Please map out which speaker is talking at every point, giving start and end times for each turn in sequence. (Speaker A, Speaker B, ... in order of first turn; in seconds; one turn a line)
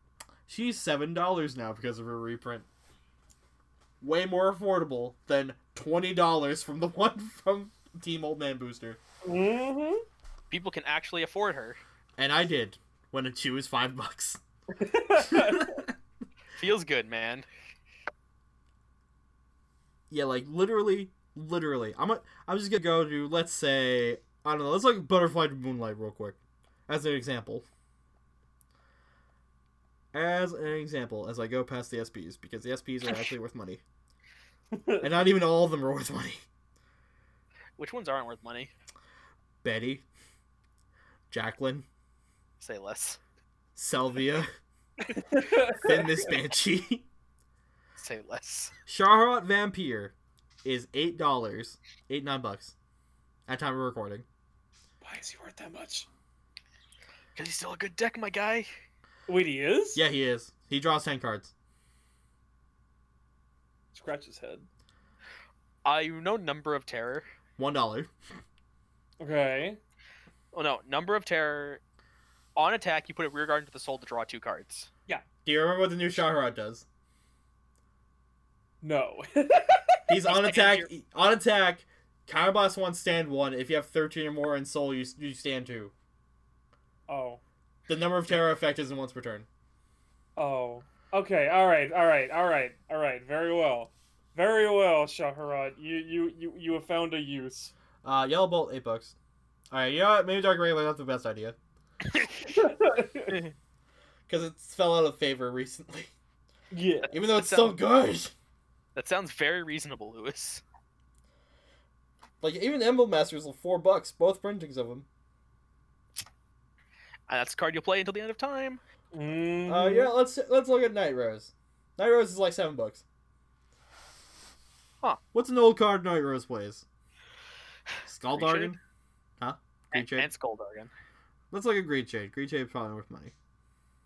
Speaker A: 0.5-2.7
Speaker A: 4.0-9.0
Speaker B: 9.2-10.1
Speaker C: 10.5-11.8
Speaker A: 12.2-14.4
Speaker B: 14.8-15.8
Speaker A: 15.2-15.9
Speaker C: 16.6-17.4
Speaker A: 20.1-27.7
Speaker A: 30.1-33.8
Speaker B: 34.7-35.1
Speaker A: 35.0-36.4
Speaker C: 37.8-38.7
Speaker A: 39.6-40.0
Speaker A: 41.3-41.9
Speaker C: 42.6-43.2
Speaker A: 43.8-44.5
Speaker B: 45.1-46.1
Speaker A: 45.8-47.1
Speaker C: 48.0-48.7
Speaker A: 48.9-52.8
Speaker A: 53.5-54.2
Speaker B: 55.0-56.1
Speaker C: 57.4-58.7
Speaker B: 59.3-60.0
Speaker A: 60.0-61.5
Speaker B: 63.9-64.7
Speaker C: 65.8-67.3
Speaker A: 67.6-68.1
Speaker B: 69.2-69.8
Speaker C: 70.5-71.8
Speaker C: 72.6-74.9
Speaker A: 75.5-76.8
Speaker B: 78.8-80.0
Speaker A: 80.1-85.9
Speaker C: 80.3-80.9
Speaker B: 87.1-87.4
Speaker A: 87.9-89.5
Speaker B: 90.4-97.7
Speaker A: 98.0-99.2
Speaker A: 99.7-101.6
Speaker C: 102.1-102.5
Speaker B: 102.5-103.4
Speaker A: 104.3-106.1
Speaker B: 106.7-107.1
Speaker A: 107.1-108.3
Speaker C: 107.2-107.8
Speaker C: 109.0-110.6
Speaker A: 112.4-115.1
Speaker C: 117.3-118.8
Speaker B: 119.1-120.1
Speaker A: 119.7-123.0
Speaker A: 125.3-126.8
Speaker A: 128.1-128.8
Speaker C: 128.3-128.8
Speaker A: 129.4-130.3
Speaker C: 129.9-130.9
Speaker A: 131.5-133.3